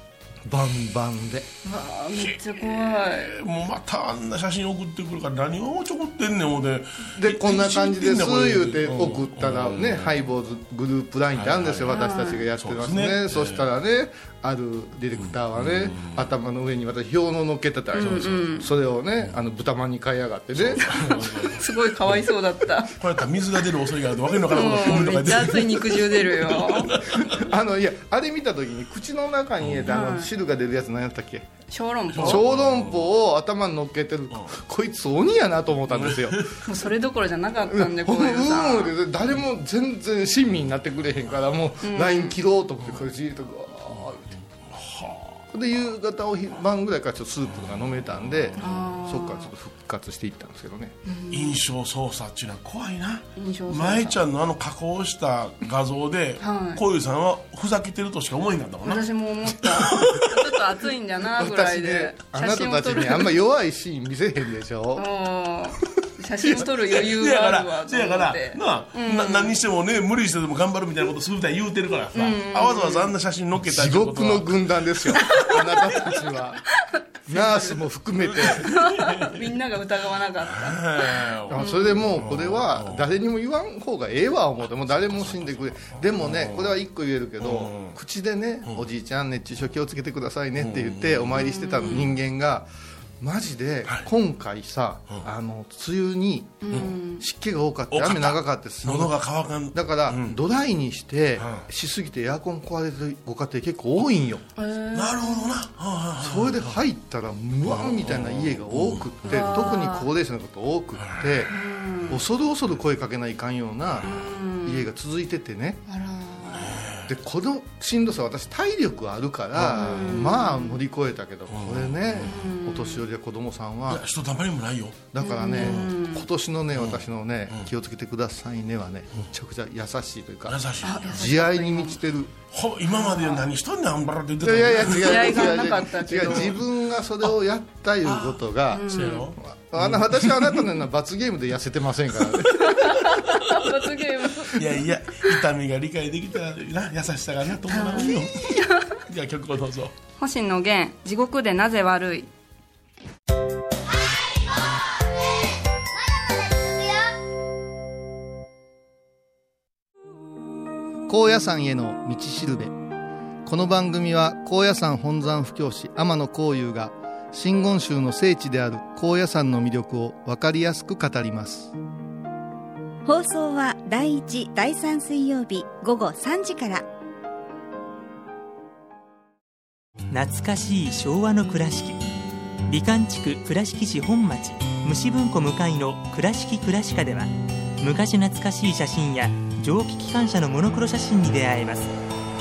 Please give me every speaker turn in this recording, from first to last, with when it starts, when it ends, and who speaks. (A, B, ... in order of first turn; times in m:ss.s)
0:00.5-0:01.5 A
0:01.6-0:03.3 B
0:02.1-0:10.2 C
0:07.1-0:21.2 A
0:11.3-0:12.0 C
0:11.9-0:12.4 B
0:12.5-0:13.7 C
0:15.2-0:16.3 C
0:17.9-0:18.7 B
0:18.0-0:18.4 C
0:20.6-0:22.2 C
0:21.4-0:22.9 B
0:22.9-0:27.5 C
0:24.5-0:26.9 B
0:27.0-0:31.5 A
0:29.6-0:29.9 C
0:29.9-0:30.3 B
0:31.7-0:32.4 B
0:32.1-0:33.1 C
0:32.2-0:36.5 A
0:35.9-0:36.6 C
0:36.6-0:38.9 B
0:37.6-0:44.2 A
0:41.8-0:42.4 B
0:43.9-0:45.4 C
0:45.5-0:51.0 A
0:47.6-0:48.9 C
0:48.6-0:49.5 B
0:51.0-0:51.6 B
0:51.3-1:00.3 C
0:53.4-0:54.2 B
0:56.4-0:56.8 B
0:58.8-1:03.3 B
1:01.3-1:05.1 A
1:04.9-1:09.5 B
1:06.5-1:16.2 C
1:12.1-1:13.1 B
1:13.6-1:16.6 A
1:17.3-1:18.7 A
1:17.3-1:17.7 B
1:18.3-1:19.5 C
1:18.6-1:22.0 B
1:20.4-1:23.0 C
1:21.5-1:32.7 A
1:24.7-1:26.8 C
1:27.4-1:28.0 C
1:30.6-1:31.4 C
1:31.3-1:32.1 B
1:33.2-1:39.2 A
1:36.6-1:37.2 B
1:37.9-1:40.4 C
1:39.7-1:44.4 A
1:41.4-1:41.6 C
1:44.6-1:45.5 B
1:44.9-1:46.8 C
1:46.2-1:51.5 A
1:47.6-1:49.5 C
1:49.3-1:50.1 B
1:51.0-1:51.5 C
1:51.5-1:52.1 B
1:52.1-1:54.1 A
1:54.0-1:54.8 B
1:54.6-1:55.8 A
1:55.9-1:56.7 B
1:56.5-1:57.1 C
1:57.1-2:04.0 A
1:59.6-2:00.1 C
1:59.7-2:00.8 B
2:01.5-2:02.3 C
2:02.2-2:03.0 B
2:03.9-2:05.9 C
2:05.1-2:12.3 A
2:05.2-2:06.2 B
2:06.7-2:07.7 C
2:10.5-2:11.3 C
2:10.8-2:12.0 B
2:12.5-2:16.6 C
2:12.9-2:13.4 B
2:14.4-2:22.8 A
2:15.0-2:16.5 B
2:18.1-2:18.4 C
2:18.7-2:19.3 B
2:18.9-2:20.7 C
2:22.6-2:24.6 B
2:22.9-2:23.7 C
2:24.5-2:29.9 C
2:27.7-2:29.0 B
2:30.2-2:32.3 B
2:41.1-2:42.8 A
2:43.4-2:51.7 A
2:53.0-2:56.8 D
3:00.1-3:02.0 E
3:02.7-3:11.9 E